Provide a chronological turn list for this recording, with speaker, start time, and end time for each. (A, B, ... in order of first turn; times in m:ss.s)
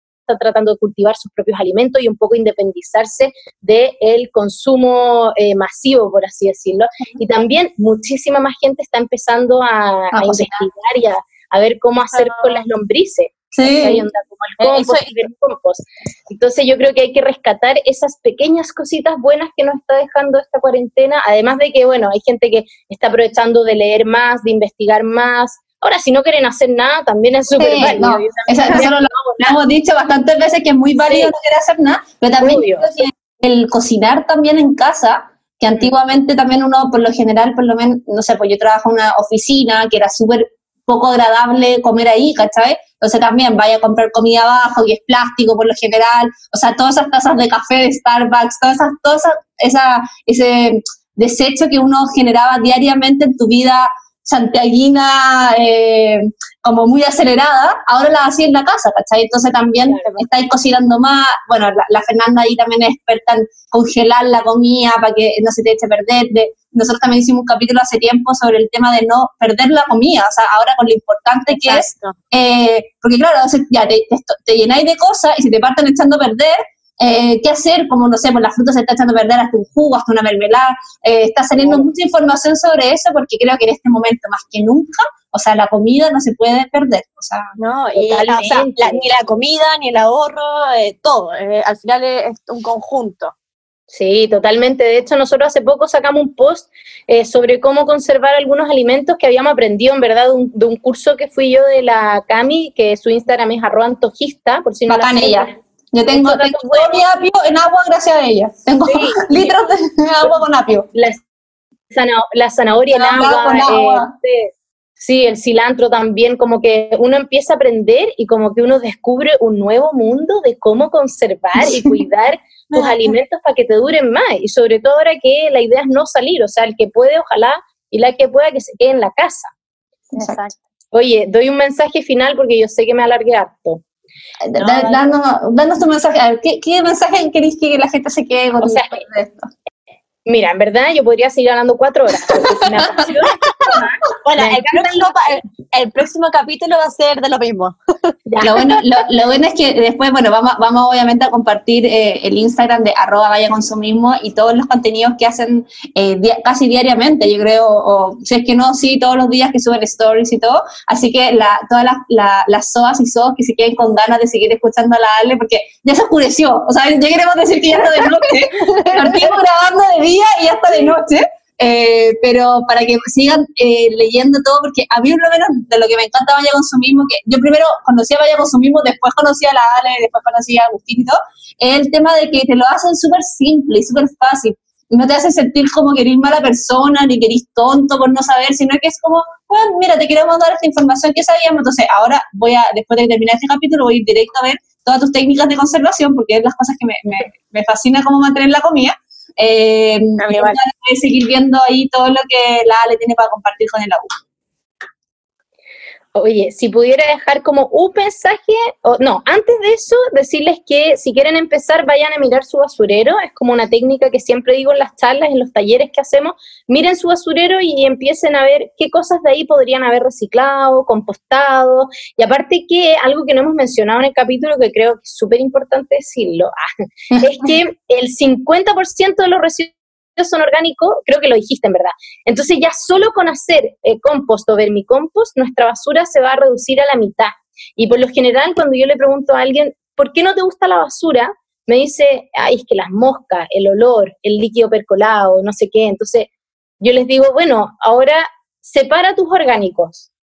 0:00.3-0:29.5 A
0:10.1-0:10.7 B
0:12.1-0:12.6 C
0:13.5-0:14.0 B
0:14.6-0:15.2 C
0:27.5-1:27.6 B
0:28.3-0:28.9 C
0:32.4-0:32.9 A
0:59.8-1:00.2 A
1:11.5-1:12.2 C
1:27.6-1:33.3 C
1:28.0-1:29.1 A
1:33.9-1:45.6 A
1:44.9-1:50.9 B
1:46.1-1:47.0 A
1:48.8-1:49.6 A
1:50.9-1:51.2 A
1:51.9-2:09.5 A
1:52.9-1:54.1 B
2:01.6-2:01.9 B
2:10.1-2:10.4 B
2:10.2-2:10.5 C
2:10.9-2:13.8 A
2:14.4-2:19.5 B
2:14.6-2:15.1 C
2:18.6-2:19.0 A
2:20.2-2:25.1 A
2:22.3-2:23.0 B
2:23.4-2:27.7 C
2:28.3-2:28.6 A
2:28.4-3:24.2 B
3:20.2-3:20.6 C
3:26.1-4:06.3 A
4:06.8-4:10.1 A